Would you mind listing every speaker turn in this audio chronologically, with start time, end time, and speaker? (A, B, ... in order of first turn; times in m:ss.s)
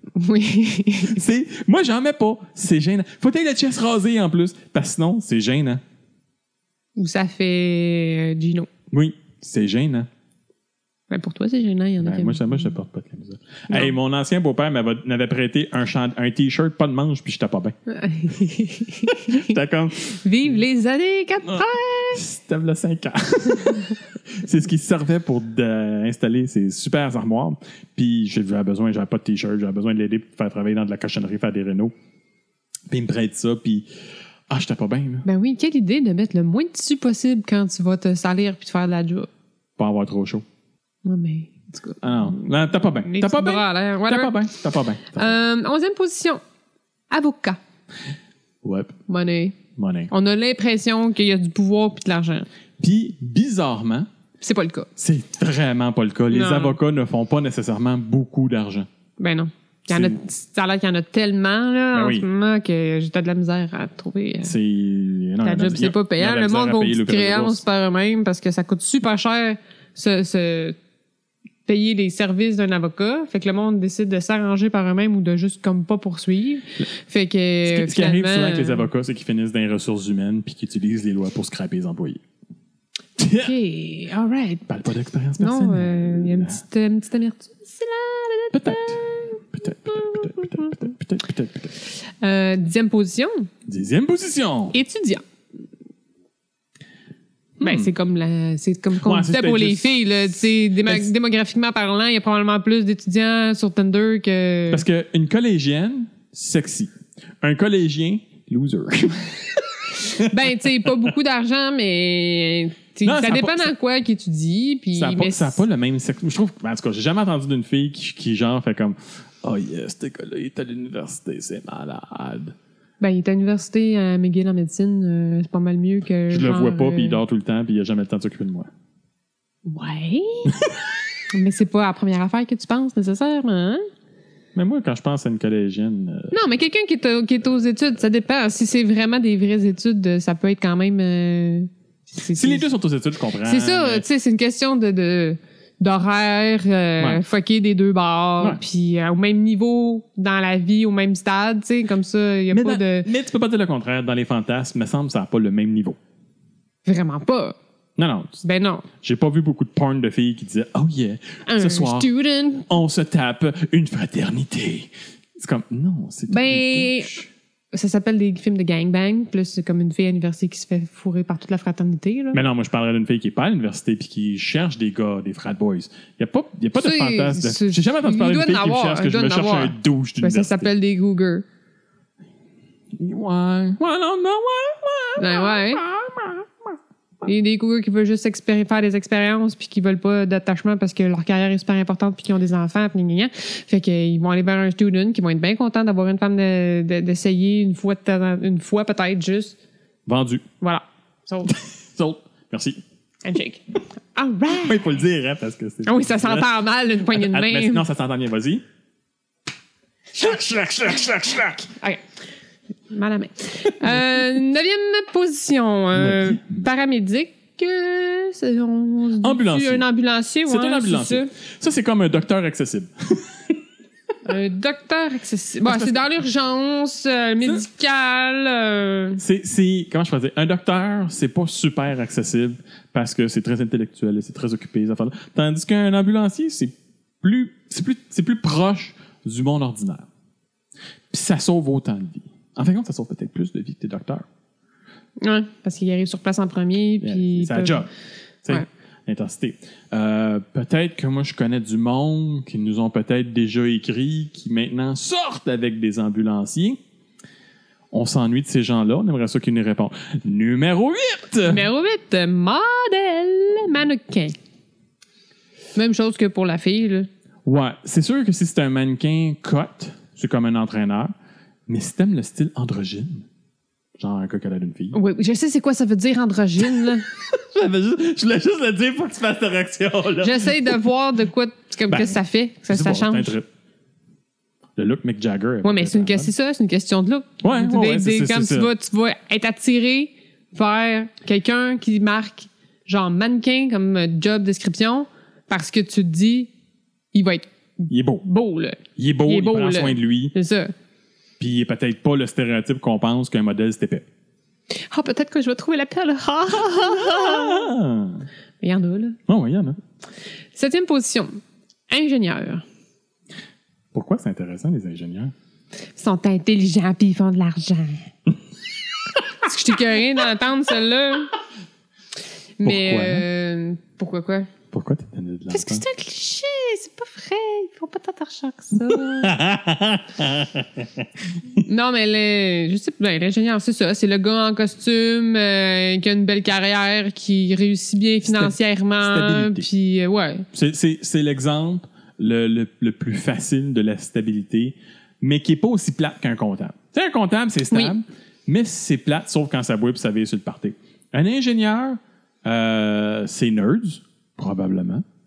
0:00.2-0:01.2 A
0:01.1-0:05.8 B
0:07.0-0:08.7 A
0:08.9-0:10.1 B
0:11.1-0:12.7 A
0:12.0-0:17.7 B
0:17.9-0:19.6 A
0:19.1-0:20.1 B
0:20.1-0:22.2 A
0:21.4-0:31.9 B
0:32.9-0:33.8 B
0:34.5-0:35.2 B
0:35.2-0:39.3 A
0:39.8-0:40.4 B
0:41.0-0:44.4 A
0:42.0-0:45.4 B
0:45.1-0:46.4 A
0:47.1-0:47.6 A
0:48.6-0:49.0 B
0:49.1-0:49.6 A
0:49.8-0:50.1 B
0:50.1-0:52.5 A
0:52.8-0:54.1 B
0:54.4-0:54.9 A
0:55.0-0:58.9 B
0:56.3-0:56.8 A
0:59.2-1:04.5 A
0:59.9-1:00.2 B
1:01.9-1:02.2 B
1:04.4-1:07.6 B
1:05.4-1:10.8 A
1:11.6-1:18.8 A
1:17.6-1:22.2 B
1:23.2-1:23.5 B
1:23.4-1:24.7 A
1:24.7-1:26.6 B
1:25.4-1:29.4 A
1:28.5-1:31.7 B
1:30.4-1:30.7 A
1:32.2-1:33.5 A
1:33.6-1:34.7 B
1:34.7-1:35.2 A
1:37.6-1:37.9 B
1:37.6-1:44.8 A
1:39.0-1:40.0 B
1:44.7-1:51.1 B
1:50.0-1:55.6 A
1:53.0-1:53.7 B
1:54.9-2:02.5 B
2:03.0-2:07.2 A
2:06.3-2:08.7 B
2:09.7-2:10.5 A
2:11.3-2:13.8 A
2:14.5-2:16.3 B
2:16.3-2:22.7 A
2:22.3-2:24.0 B
2:23.4-2:33.1 A
2:32.5-2:36.0 B
2:36.8-2:37.6 A
2:38.0-2:38.4 B
2:38.4-2:38.9 A
2:39.0-2:42.1 B
2:41.5-2:42.7 A
2:42.7-2:47.3 B
2:46.3-2:47.1 A
2:47.7-2:52.4 A
2:52.3-3:00.7 B
2:56.8-3:01.4 A
3:03.0-3:06.7 B
3:05.2-3:05.8 A
3:07.2-3:19.6 A
3:20.0-3:20.4 B
3:20.6-3:21.5 A
3:21.4-3:22.8 B
3:23.2-3:23.6 A
3:24.1-3:24.8 A
3:24.5-3:26.5 B
3:25.8-3:27.9 A
3:27.0-3:28.6 B
3:30.1-3:31.7 B
3:32.9-3:41.3 A
3:35.9-3:36.4 B
3:39.2-3:39.8 B
3:40.4-3:43.6 B
3:44.2-3:49.2 A
3:45.6-3:45.9 B
3:49.2-4:00.1 B
4:01.1-4:04.2 B
4:05.2-4:07.8 A
4:07.0-4:07.9 B
4:08.4-4:16.8 B
4:17.9-4:21.6 B
4:21.5-4:24.3 A
4:25.8-4:27.1 A
4:27.4-4:31.1 B
4:31.7-4:33.3 B
4:34.0-4:34.9 B
4:34.9-4:37.0 A
4:36.6-4:40.8 B
4:40.2-4:43.3 A
4:41.9-4:42.2 B
4:42.7-4:43.5 B
4:44.8-4:46.3 B
4:45.6-4:56.5 A
4:47.4-4:48.7 B
4:57.1-5:00.7 A
4:57.9-4:58.2 B
4:59.0-5:00.3 B
5:01.4-5:04.0 B
5:04.8-5:07.7 A
5:06.7-5:08.2 B
5:08.6-5:09.2 A
5:09.3-5:09.8 B
5:10.5-5:12.6 A
5:13.9-5:15.3 B
5:16.0-5:18.1 A
5:19.4-5:21.3 A
5:22.6-5:24.5 A
5:22.6-5:23.2 B
5:24.7-5:25.8 B
5:25.5-5:29.4 A
5:28.9-5:31.1 B
5:31.6-5:40.5 A
5:38.2-5:39.7 B
5:40.5-5:55.0 B